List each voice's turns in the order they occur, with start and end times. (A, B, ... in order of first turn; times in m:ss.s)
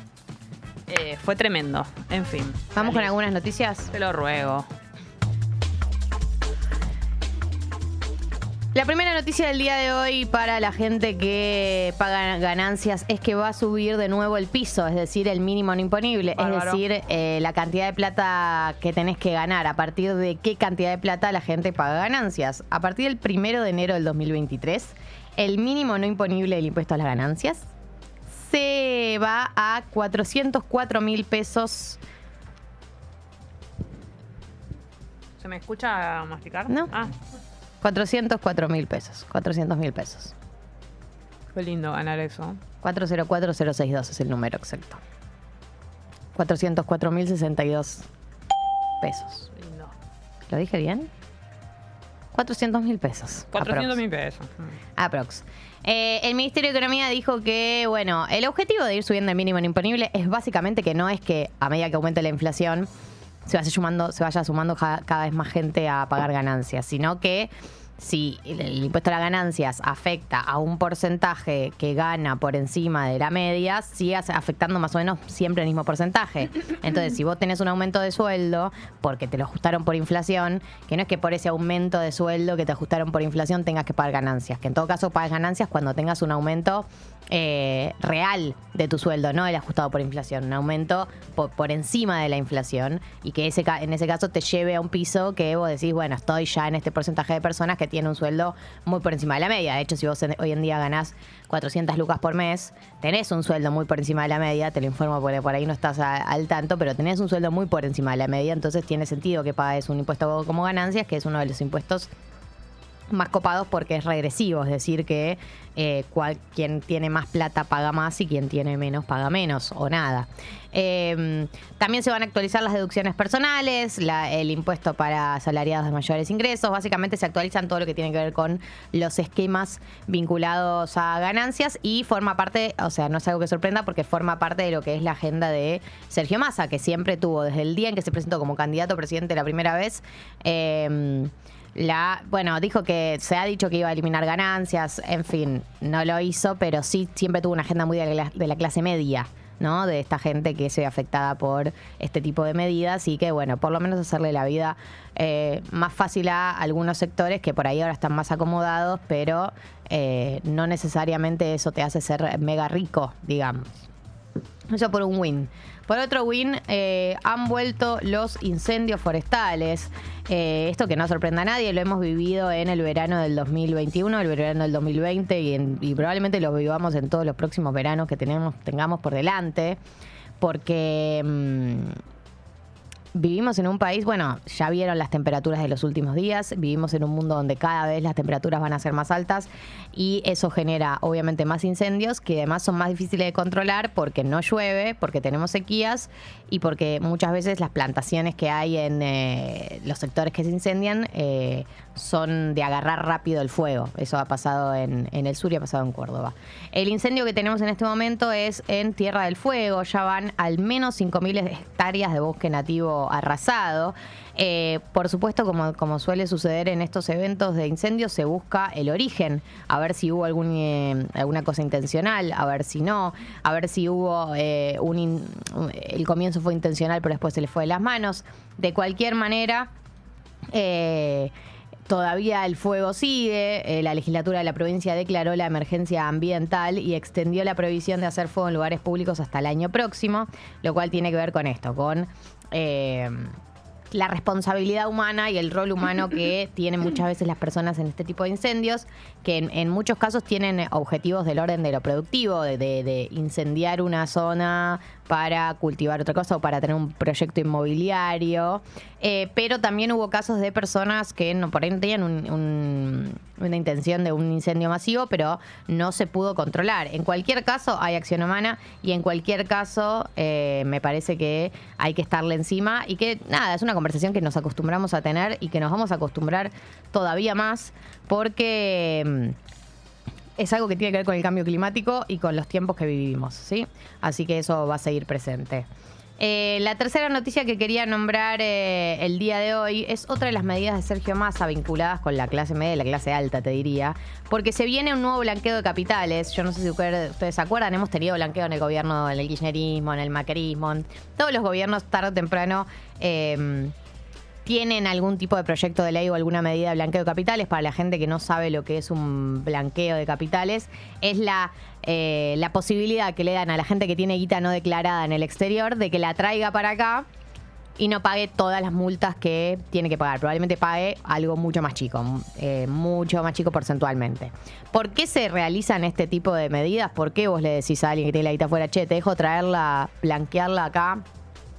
0:00.9-0:03.2 A
0:02.7-0:03.9 B
0:03.9-0:04.7 A
0:08.7-0:27.6 B
0:16.4-0:16.8 A
0:28.3-0:32.0 B
0:35.4-0:37.1 A
0:37.8-0:40.3 B
0:41.5-0:42.6 A
0:42.8-0:45.0 B
0:46.3-0:48.0 B
0:49.0-0:49.5 B
0:49.6-0:49.9 A
0:50.5-0:51.1 B
0:52.3-0:54.0 B
0:53.5-0:54.7 A
0:55.0-1:02.9 B
1:03.4-1:52.1 B
1:53.1-2:43.9 B
2:44.7-2:59.8 B
3:00.4-3:02.0 B
3:03.1-3:49.7 B
3:50.5-3:51.3 B
3:51.9-4:03.3 B
4:03.9-4:39.4 B
4:40.4-4:45.7 B
4:46.2-5:03.7 B
5:04.4-5:17.0 B
5:17.8-5:31.0 B